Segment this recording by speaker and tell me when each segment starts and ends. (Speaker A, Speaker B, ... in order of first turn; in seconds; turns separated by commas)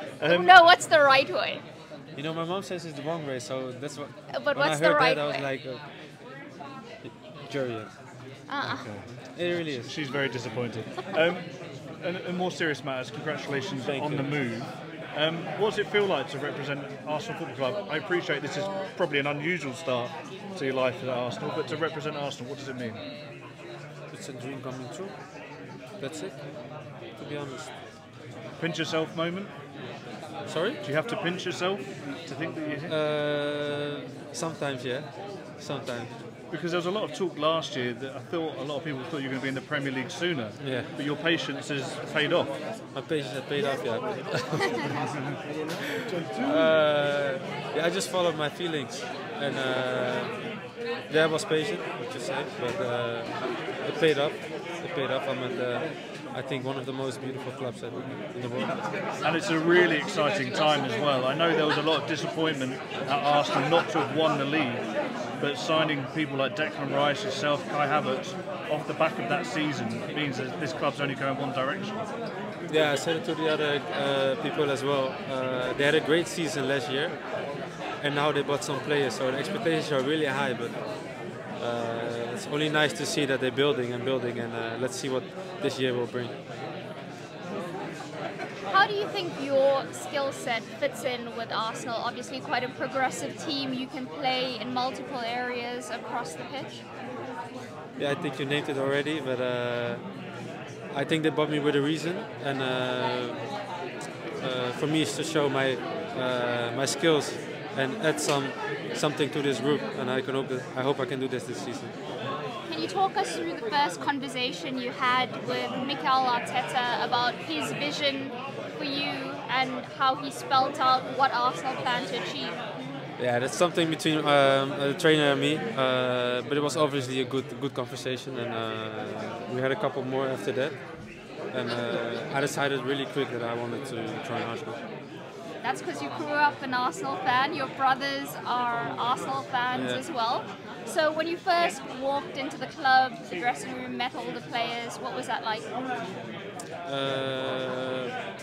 Speaker A: 0.2-0.6, Speaker B: 0.2-1.6, Speaker C: 2.1-5.8, Speaker B: 4.3-5.5, Speaker C: 7.0-7.9, Speaker B: 8.5-8.9, Speaker A: 8.6-11.5, Speaker C: 9.3-9.9, Speaker A: 12.0-23.0, Speaker C: 13.8-14.4, Speaker C: 24.1-25.1, Speaker C: 26.0-26.4, Speaker C: 27.1-27.7, Speaker A: 28.6-29.5, Speaker C: 30.4-30.8, Speaker A: 30.8-32.9, Speaker C: 32.9-36.1, Speaker A: 36.5-42.6, Speaker C: 40.6-40.9, Speaker C: 42.9-45.0, Speaker C: 46.3-50.4, Speaker C: 51.0-58.8, Speaker A: 59.2-64.8, Speaker A: 65.4-72.0, Speaker C: 72.7-80.9, Speaker C: 81.5-86.3, Speaker B: 88.7-96.8, Speaker C: 98.0-100.1, Speaker C: 100.9-103.5, Speaker C: 104.4-111.9, Speaker B: 112.7-122.6, Speaker C: 123.2-134.8, Speaker B: 135.6-145.7, Speaker C: 139.7-140.0, Speaker C: 146.8-148.1